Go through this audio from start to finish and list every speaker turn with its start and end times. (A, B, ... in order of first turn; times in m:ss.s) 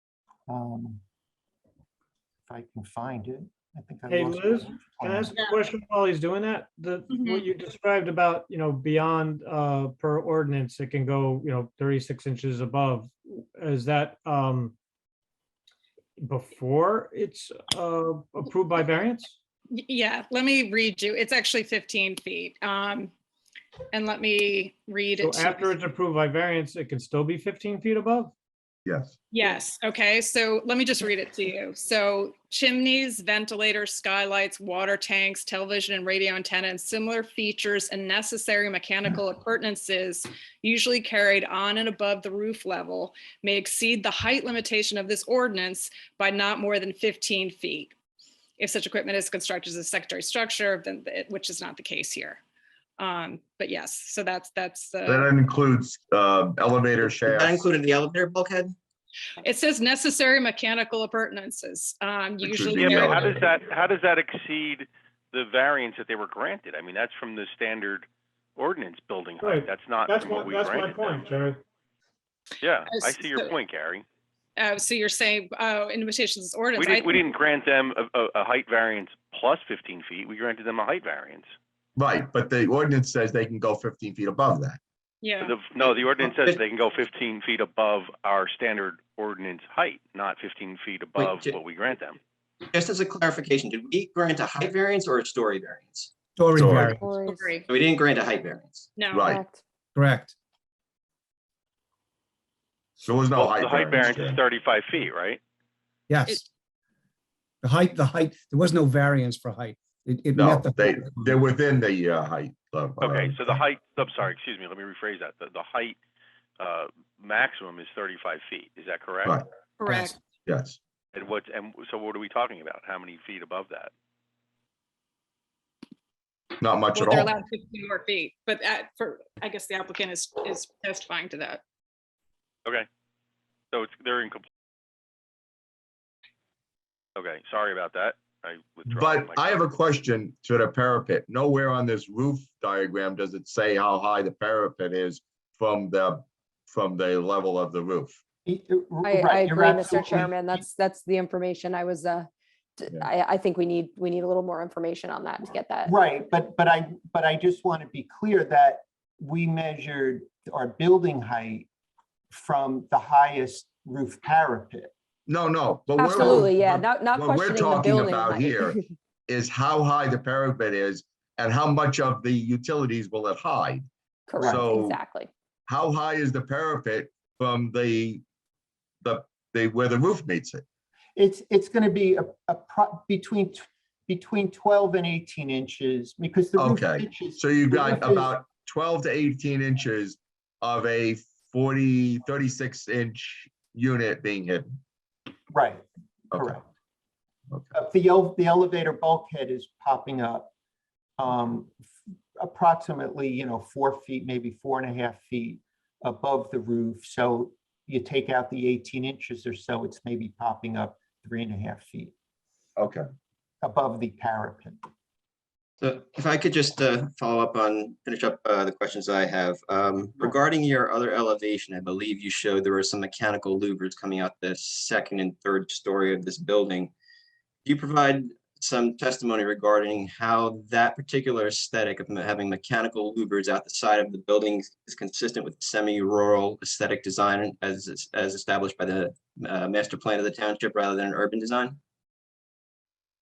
0:00.5-0:01.0 A
0:02.5-0:05.4 A
0:04.1-0:14.7 B
0:07.1-0:07.5 C
0:16.2-0:19.4 B
0:19.7-0:23.1 C
0:23.9-0:25.7 C
0:25.2-0:28.3 B
0:28.8-0:29.2 D
0:29.3-0:47.9 C
0:48.6-0:52.4 C
0:53.0-0:55.3 C
0:55.0-0:57.6 D
0:57.0-0:58.7 E
0:59.4-1:03.4 C
1:02.4-1:03.4 D
1:02.7-1:11.3 F
1:09.4-1:11.6 B
1:12.6-1:14.0 F
1:12.8-1:13.5 C
1:14.6-1:17.2 C
1:16.8-1:21.5 F
1:22.0-1:24.8 D
1:25.2-1:25.6 C
1:25.4-1:32.2 F
1:25.8-1:26.6 E
1:31.2-1:31.6 E
1:32.7-1:36.1 E
1:36.4-1:37.0 G
1:36.6-1:36.9 D
1:37.0-1:37.5 H
1:37.1-1:37.7 C
1:37.7-1:38.9 E
1:39.0-1:39.3 C
1:39.1-1:39.4 D
1:39.2-1:39.6 H
1:39.9-1:40.3 G
1:43.0-1:44.4 D
1:43.4-1:45.4 F
1:46.1-1:46.4 G
1:47.6-1:51.4 G
1:50.3-1:53.4 D
1:53.0-1:56.0 F
1:56.6-1:59.4 F
1:59.8-2:00.2 C
2:00.4-2:00.8 D
2:01.1-2:03.9 F
2:06.6-2:07.3 D
2:06.9-2:11.6 C
2:13.7-2:14.4 F
2:17.2-2:19.6 F
2:18.9-2:28.2 D
2:28.4-2:30.6 A
2:29.0-2:35.9 H
2:35.8-2:41.7 A
2:42.3-2:44.9 A
2:45.3-2:53.9 D
2:46.0-2:48.9 H
2:46.2-2:46.5 A
2:54.3-2:55.3 H
2:54.4-2:55.0 D
2:55.7-2:58.2 D
2:59.0-3:00.6 D
3:01.2-3:08.3 A
3:06.6-3:14.7 D
3:15.5-3:16.6 A
3:16.3-3:16.6 D
3:17.7-3:20.5 A
3:21.2-3:21.8 A
3:22.4-3:32.1 A
3:32.8-3:33.0 D
3:33.6-3:34.8 A
3:35.8-3:46.9 E
3:47.6-4:01.8 E